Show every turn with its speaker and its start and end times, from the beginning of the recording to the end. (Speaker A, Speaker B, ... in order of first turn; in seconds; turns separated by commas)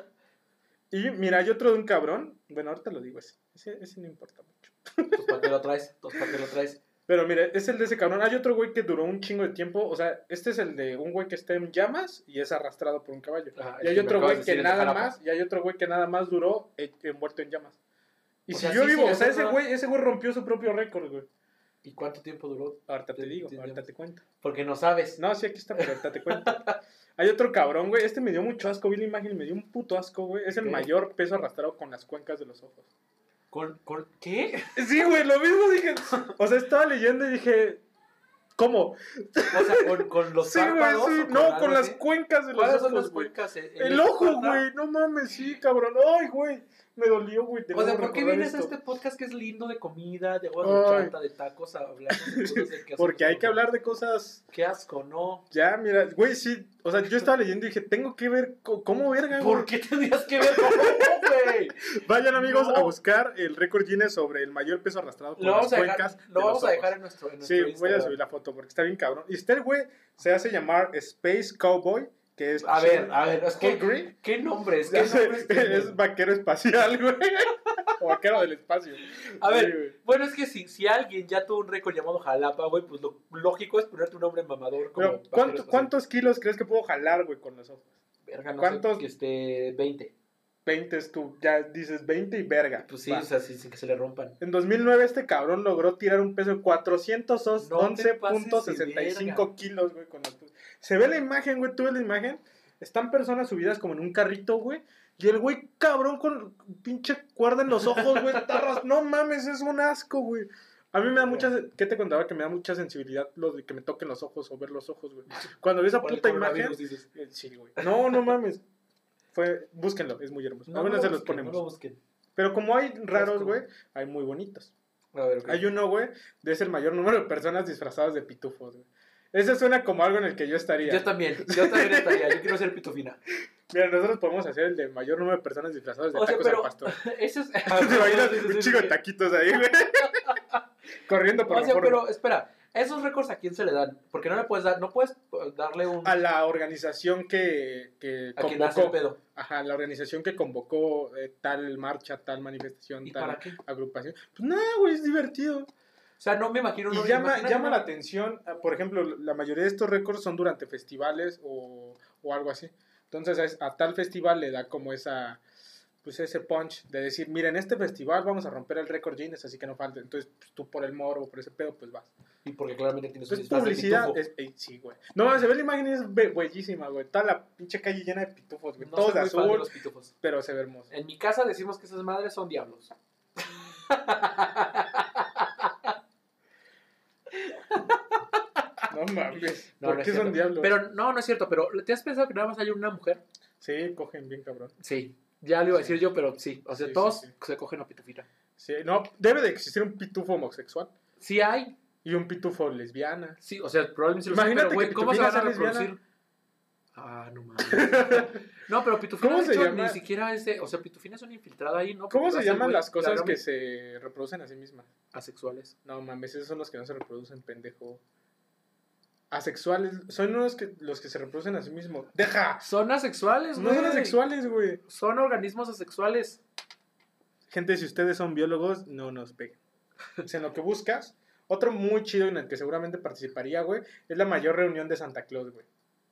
Speaker A: 0.9-5.4, Speaker B: 5.1-6.8, Speaker A: 7.1-17.8, Speaker B: 13.5-15.1, Speaker A: 18.4-21.3, Speaker B: 18.5-19.6, Speaker B: 21.8-23.8, Speaker A: 22.9-24.2, Speaker B: 24.4-25.2, Speaker A: 25.2-26.6, Speaker B: 25.7-26.8, Speaker A: 27.2-32.9, Speaker B: 30.5-30.9, Speaker B: 33.5-34.8, Speaker A: 34.7-37.8, Speaker A: 38.6-48.7, Speaker B: 39.5-42.0, Speaker B: 42.5-44.6, Speaker B: 47.7-53.6, Speaker A: 50.6-51.1, Speaker A: 52.1-54.4, Speaker B: 54.5-55.5, Speaker A: 55.5-59.7, Speaker B: 59.3-62.9, Speaker A: 60.4-74.1, Speaker B: 65.4-68.2, Speaker B: 72.6-76.0, Speaker A: 74.9-79.9, Speaker B: 79.4-85.9, Speaker A: 84.9-87.9, Speaker B: 88.2-90.1, Speaker A: 88.6-89.0, Speaker A: 90.6-93.3, Speaker B: 92.9-94.4, Speaker A: 94.4-118.6, Speaker B: 97.6-99.5, Speaker B: 111.2-111.5, Speaker B: 116.0-117.0, Speaker A: 119.3-121.6, Speaker B: 120.7-122.0, Speaker A: 122.3-124.7, Speaker B: 123.1-123.6, Speaker B: 125.1-125.7, Speaker A: 125.5-132.5, Speaker B: 130.8-133.2, Speaker A: 133.7-137.0, Speaker B: 136.1-138.9, Speaker A: 137.7-140.4, Speaker A: 141.0-142.1, Speaker B: 141.5-146.1, Speaker A: 146.0-155.7, Speaker B: 148.3-149.2, Speaker B: 153.0-153.6, Speaker B: 156.2-157.8, Speaker A: 156.9-165.4, Speaker A: 166.0-172.1, Speaker B: 172.4-174.2, Speaker A: 173.3-179.7, Speaker B: 178.8-180.1, Speaker A: 180.2-180.9, Speaker B: 180.9-185.9, Speaker B: 187.3-188.6, Speaker A: 188.9-190.7, Speaker B: 189.8-193.2, Speaker A: 193.6-194.7, Speaker B: 194.8-198.3, Speaker A: 196.8-197.3, Speaker A: 198.6-200.9, Speaker B: 201.2-201.8, Speaker A: 202.0-203.4, Speaker B: 203.4-206.0, Speaker A: 204.3-205.9, Speaker B: 206.9-213.4, Speaker A: 207.7-208.4, Speaker A: 209.2-210.0, Speaker A: 212.1-214.9, Speaker B: 215.1-215.7, Speaker A: 215.8-218.0, Speaker A: 219.3-222.7, Speaker B: 222.6-224.2, Speaker A: 223.5-224.8, Speaker B: 224.8-226.4, Speaker A: 227.5-229.6, Speaker A: 230.2-235.7